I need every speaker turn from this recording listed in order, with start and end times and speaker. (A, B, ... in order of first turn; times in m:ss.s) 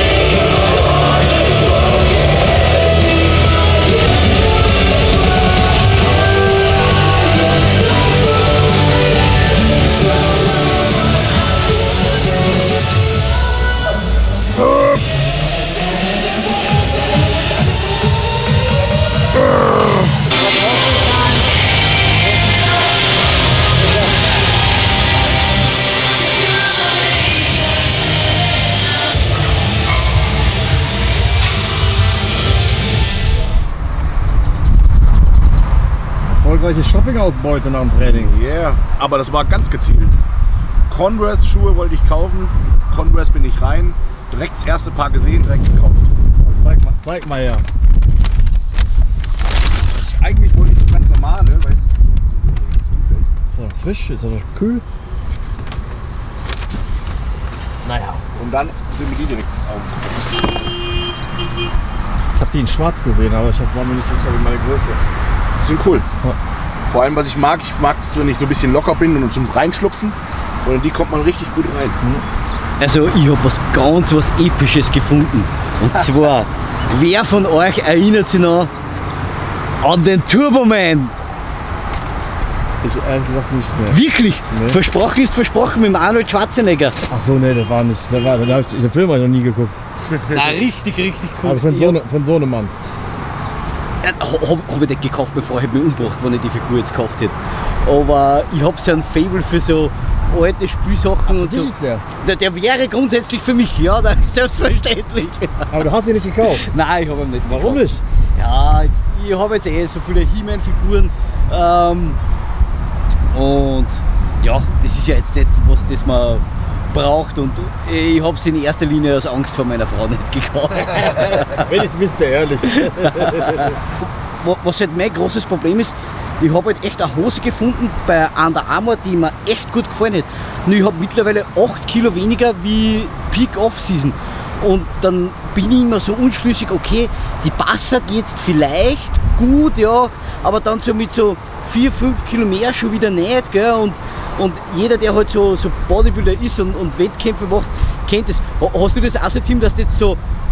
0:36.4-0:38.3 A
0:38.0-0:40.2 B
0:40.9-0:46.1 B
0:46.4-0:47.6 A
0:49.9-0:53.3 B
0:53.6-0:54.8 A
0:57.8-0:58.2 A
0:58.3-1:00.3 B
1:02.4-1:05.0 A
1:05.6-1:06.0 B
1:06.8-1:12.0 B
1:12.8-1:18.7 C
1:19.8-1:21.1 C
1:22.8-1:24.0 A
1:23.9-1:27.0 C
1:24.5-1:24.8 A
1:27.1-1:29.8 A
1:30.3-1:32.0 C
1:31.4-1:32.7 A
1:34.0-1:45.7 C
1:41.3-1:42.0 A
1:45.7-1:46.6 A
1:46.4-1:47.8 C
1:47.4-1:48.0 A
1:48.4-1:52.2 C
1:53.3-2:01.6 C
2:01.5-2:03.8 A
2:02.8-2:03.8 C
2:04.4-2:30.2 C